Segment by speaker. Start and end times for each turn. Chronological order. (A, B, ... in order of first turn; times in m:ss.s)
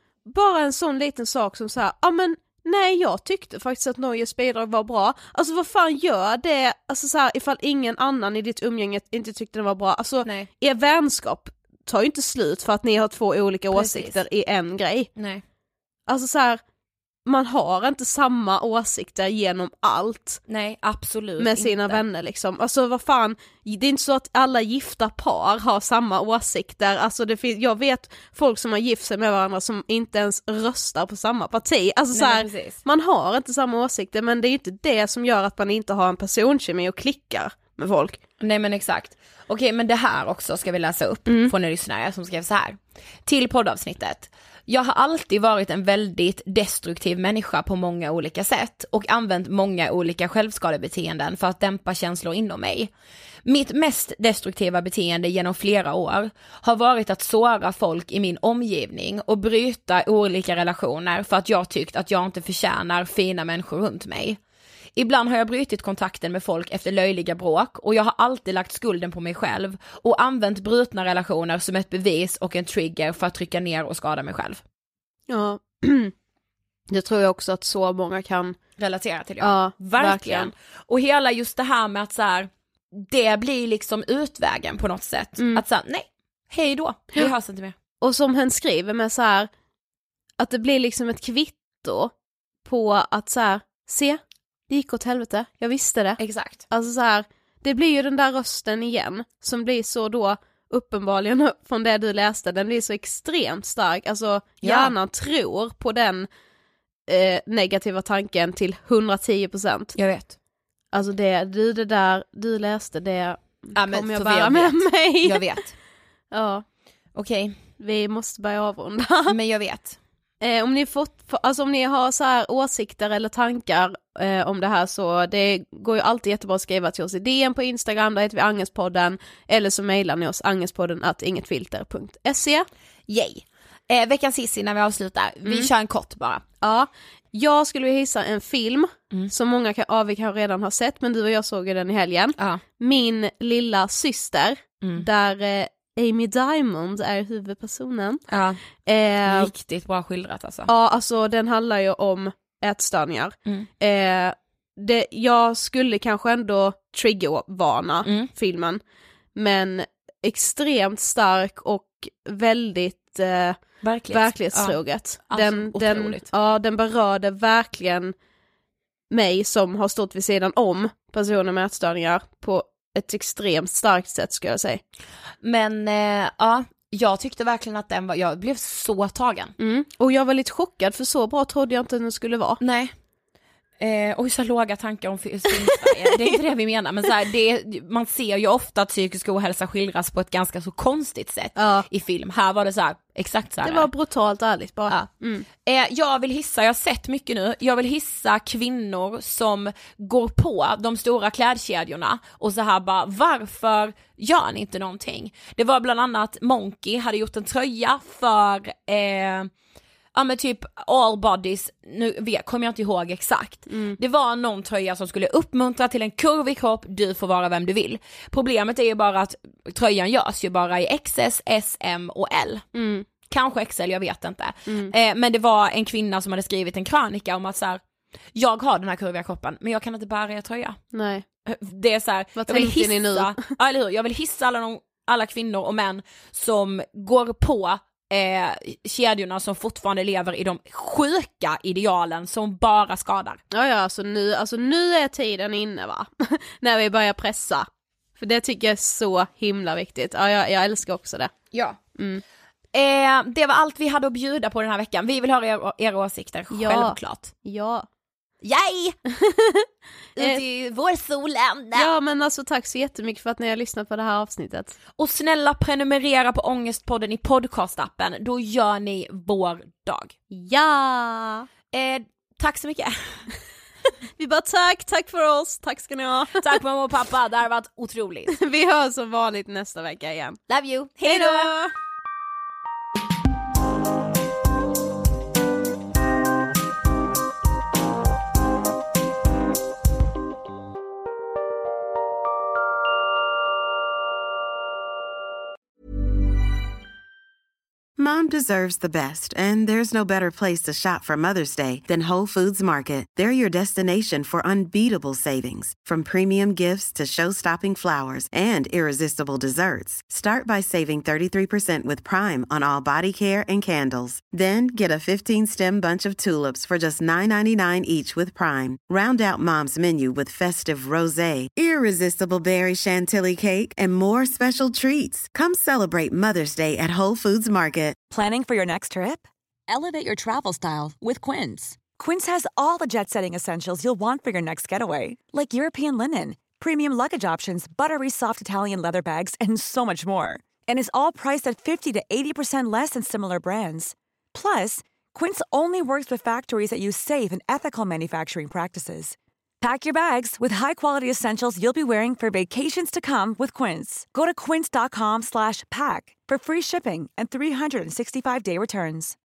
0:00.2-0:15.1 A
0:10.2-0:10.5 B
0:13.7-0:14.2 B
0:15.2-0:15.4 B
0:16.1-0:16.6 A
0:17.2-0:20.4 A
0:20.5-0:22.0 B
0:21.4-0:38.2 A
0:32.1-0:32.8 B
0:38.4-0:52.9 B
0:41.3-0:41.5 A
0:53.4-1:04.4 B
1:05.0-1:14.6 B
1:15.3-1:16.1 A
1:16.9-1:18.6 A
1:18.8-1:27.8 B
1:19.4-1:20.5 A
1:25.4-1:25.6 A
1:28.0-1:29.5 A
1:30.4-1:32.1 A
1:32.6-1:46.3 A
1:36.2-1:36.6 B
1:44.6-1:44.9 B
1:47.1-1:50.0 A
1:50.0-1:50.3 B
1:50.9-1:55.4 A
1:53.7-1:55.7 B
1:56.3-1:56.6 A
1:57.1-1:57.6 B
1:57.8-1:59.3 A
1:59.3-2:00.0 B
2:00.4-2:12.6 A
2:13.1-2:16.4 B
2:16.6-2:28.2 A
2:28.3-2:28.6 B
2:28.8-2:29.5 A
2:29.2-2:30.7 B
2:30.6-2:38.8 A
2:38.0-2:38.3 B
2:39.3-2:48.1 A
2:43.8-2:46.2 B
2:49.1-2:54.8 A
2:55.4-2:59.5 B
2:59.6-3:02.6 A
3:02.6-3:02.9 B
3:03.8-3:13.9 B
3:05.7-3:06.3 A
3:11.6-3:11.8 A
3:13.6-3:15.4 A
3:14.9-3:29.5 B
3:30.1-3:42.6 B
3:33.7-3:34.0 A
3:42.7-3:43.1 A
3:43.3-3:47.8 B
3:44.7-3:44.9 A
3:48.3-3:50.8 B
3:50.9-3:51.2 A
3:51.4-4:03.4 B
3:52.4-3:53.5 A
4:03.5-4:07.7 A
4:08.2-4:11.3 A
4:11.5-4:11.8 B
4:12.0-4:12.2 A
4:12.7-4:17.3 B
4:16.5-4:17.9 A
4:18.4-4:19.0 B
4:19.2-4:19.6 A
4:20.2-4:21.9 B
4:21.7-4:24.8 A
4:25.0-4:30.1 B
4:30.3-4:31.4 A
4:31.7-4:33.3 B
4:34.2-4:36.5 A
4:36.4-4:38.4 B
4:38.3-4:40.4 A
4:40.5-4:41.5 B
4:41.0-4:41.7 A
4:58.0-5:28.0 C
5:28.1-5:59.2 D